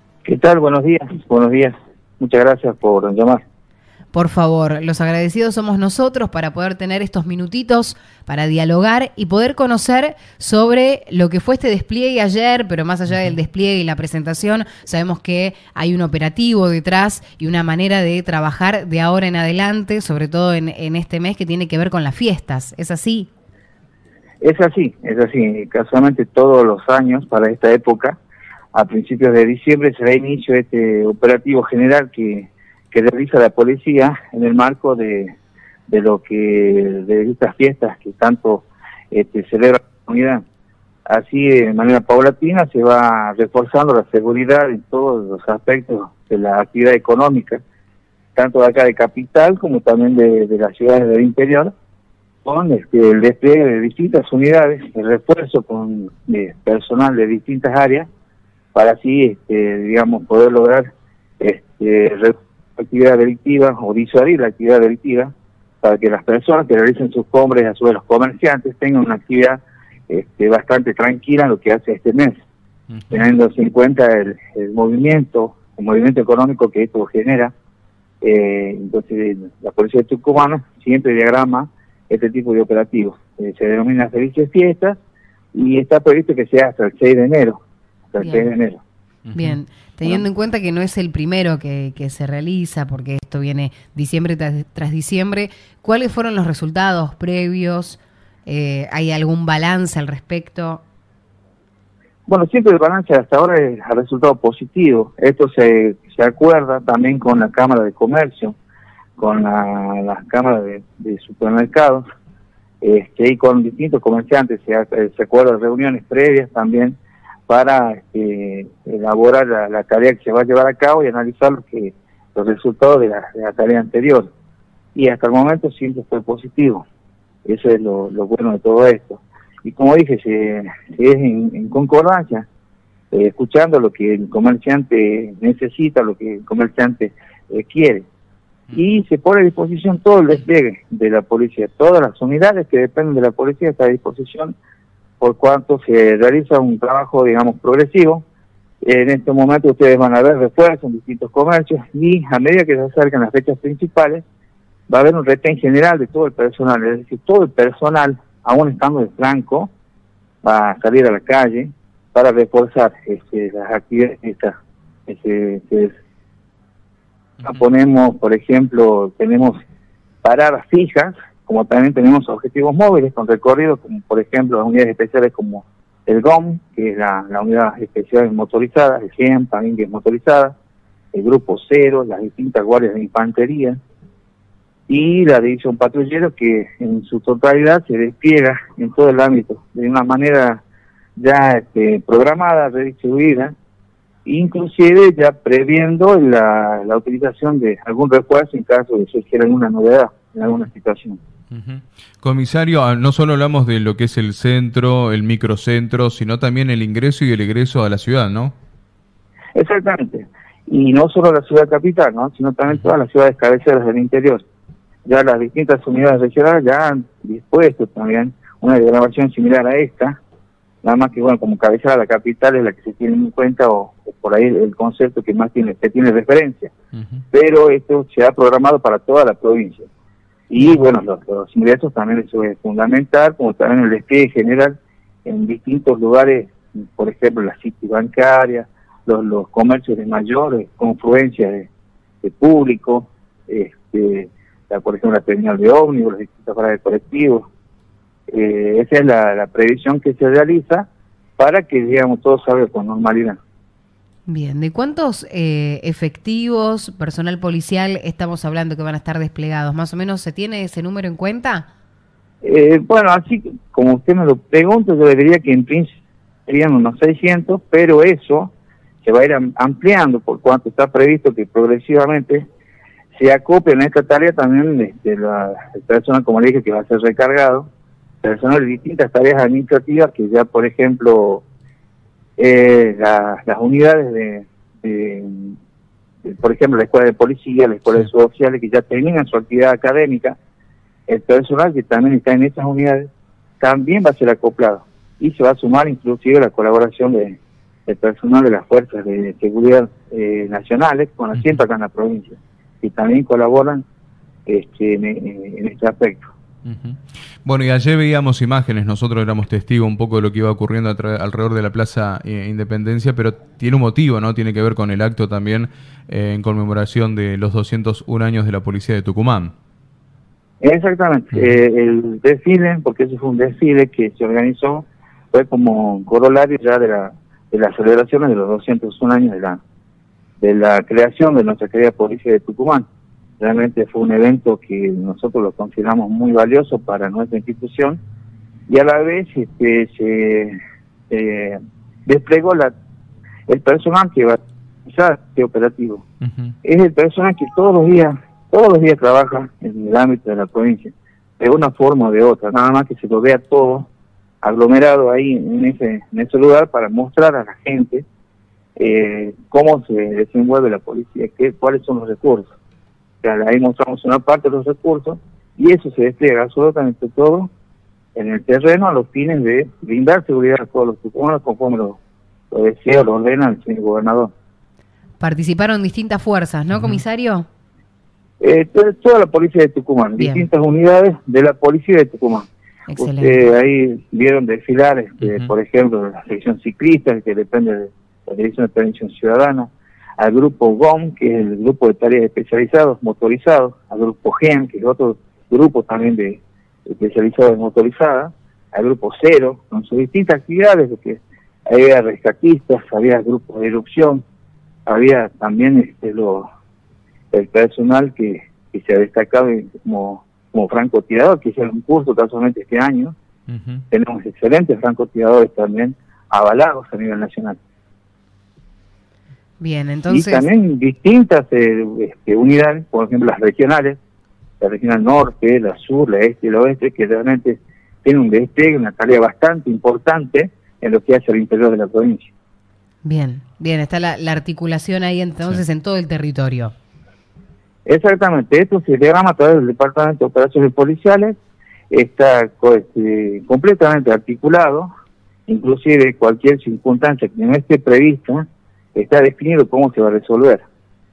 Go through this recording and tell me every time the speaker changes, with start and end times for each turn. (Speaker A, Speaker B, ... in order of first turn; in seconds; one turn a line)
Speaker A: 0.2-3.4
Speaker B: 4.1-23.3
Speaker A: 24.4-28.2
Speaker A: 28.7-35.3
Speaker A: 35.9-40.4
Speaker A: 41.1-47.6
Speaker A: 48.3-51.7
Speaker A: 52.5-58.1
Speaker A: 58.7-60.9
Speaker A: 61.4-72.3
Speaker C: 72.9-73.3
Speaker A: 73.1-77.5
Speaker A: 78.2-85.0
Speaker A: 85.5-87.6
Speaker A: 88.1-88.8
Speaker B: 88.2-88.5
Speaker C: 89.3-89.6
Speaker B: 89.3-100.8
Speaker A: 102.3-108.5
Speaker A: 109.2-112.0
Speaker A: 112.8-124.3
Speaker A: 125.0-126.8
Speaker A: 127.5-132.5
Speaker A: 133.1-138.1
Speaker A: 138.7-144.6
Speaker A: 145.2-148.2
Speaker A: 148.8-154.2
Speaker A: 154.9-159.7
Speaker A: 160.4-164.6
Speaker A: 165.1-166.0
Speaker A: 167.4-169.6
Speaker A: 170.2-180.5
Speaker A: 181.1-183.8
Speaker A: 184.9-190.6
Speaker A: 191.2-193.5
Speaker A: 194.2-201.2
Speaker C: 201.5-208.6
Speaker A: 209.6-214.4
Speaker A: 215.1-220.2
Speaker A: 220.8-226.7
Speaker C: 226.9-227.2
Speaker A: 227.3-229.9
Speaker A: 230.5-241.7
Speaker A: 242.2-247.5
Speaker A: 248.3-253.4
Speaker B: 254.3-261.7
Speaker A: 262.4-265.9
Speaker A: 266.5-268.5
Speaker A: 269.0-272.4
Speaker A: 273.1-277.7
Speaker A: 278.2-281.4
Speaker A: 282.4-285.6
Speaker A: 286.2-290.4
Speaker A: 291.1-293.1
Speaker A: 293.6-303.8
Speaker C: 301.4-301.6
Speaker A: 304.4-306.3
Speaker C: 306.6-319.5
Speaker A: 320.6-329.6
Speaker A: 330.4-332.9
Speaker A: 333.4-338.0
Speaker A: 338.7-340.6
Speaker A: 341.1-342.7
Speaker A: 343.5-346.1
Speaker C: 346.2-346.6
Speaker A: 346.6-353.9
Speaker A: 354.4-358.0
Speaker A: 358.8-362.5
Speaker A: 363.2-367.5
Speaker A: 368.1-372.0
Speaker A: 372.5-374.3
Speaker B: 375.2-377.4
Speaker C: 376.7-377.0
Speaker A: 378.4-404.2
Speaker B: 380.2-380.4
Speaker B: 382.9-383.4
Speaker C: 385.2-385.5
Speaker A: 404.9-406.4
Speaker A: 407.3-413.1
Speaker C: 413.5-413.8
Speaker A: 413.9-417.6
Speaker B: 419.6-420.5
Speaker A: 420.1-424.0
Speaker A: 424.6-432.3
Speaker B: 433.0-436.7
Speaker A: 437.9-441.4
Speaker A: 441.9-444.9
Speaker A: 445.5-450.6